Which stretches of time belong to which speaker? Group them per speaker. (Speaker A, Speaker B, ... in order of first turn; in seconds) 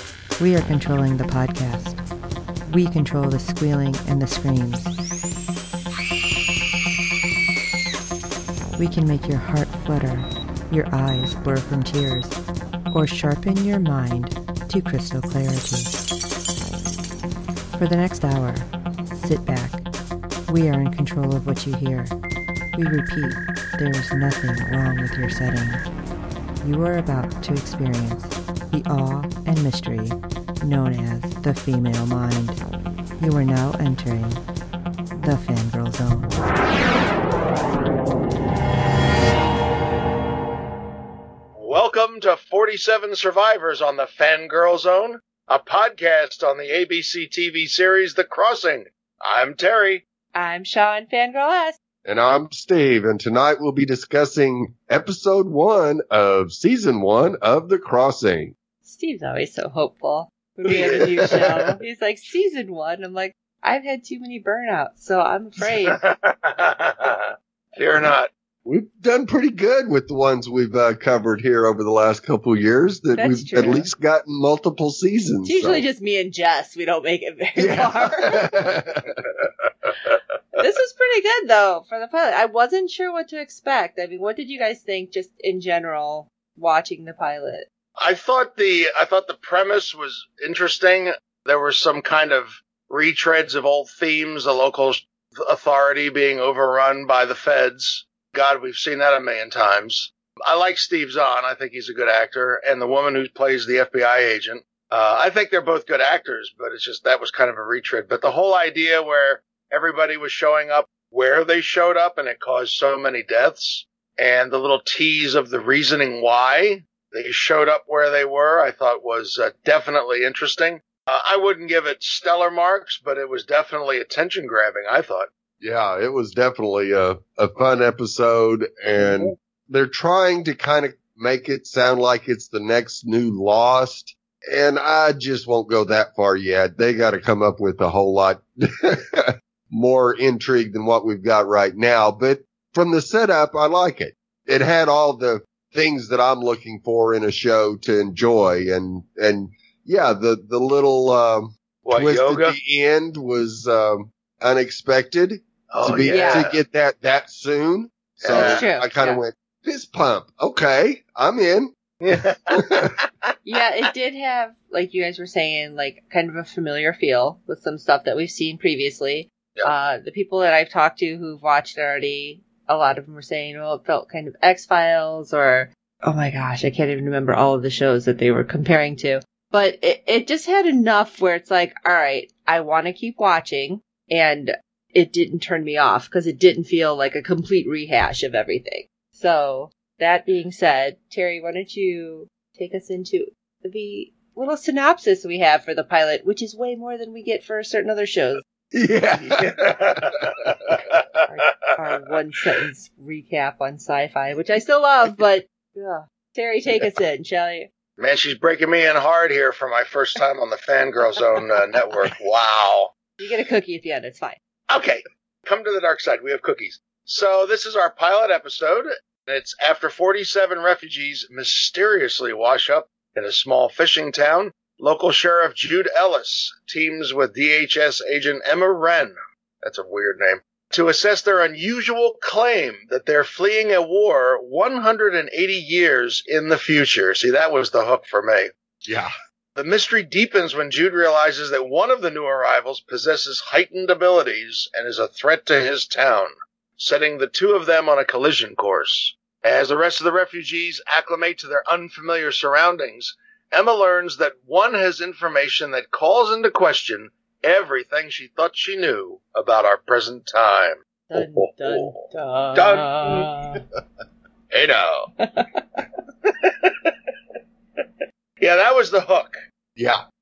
Speaker A: 0.4-2.0, 2.7-4.9, 8.8-12.4, 12.9-15.9, 17.8-19.8, 20.5-22.1, 22.8-25.8, 26.6-32.6, 33.2-34.4, 35.1-36.4
Speaker B: 41.6-50.0, 60.7-61.4, 65.9-68.3, 79.4-80.2, 88.0-125.3, 129.0-129.3, 151.9-152.6, 155.7-156.6, 158.2-158.7, 162.0-163.0, 199.2-201.6, 208.0-212.9, 214.7-238.5, 239.6-262.0, 262.5-263.3, 264.5-265.1, 266.3-266.9, 268.4-269.4
Speaker C: 50.3-51.8, 58.9-66.0, 73.2-73.9, 75.4-78.5, 80.6-87.7, 156.1-156.5, 158.3-159.2, 163.4-198.4, 201.3-207.7, 213.2-214.4, 261.1-263.6, 265.2-265.6
Speaker D: 52.0-58.5, 68.7-75.8, 77.6-79.2, 125.6-161.7, 162.6-162.9, 198.7-200.8, 238.9-239.1, 269.8-270.0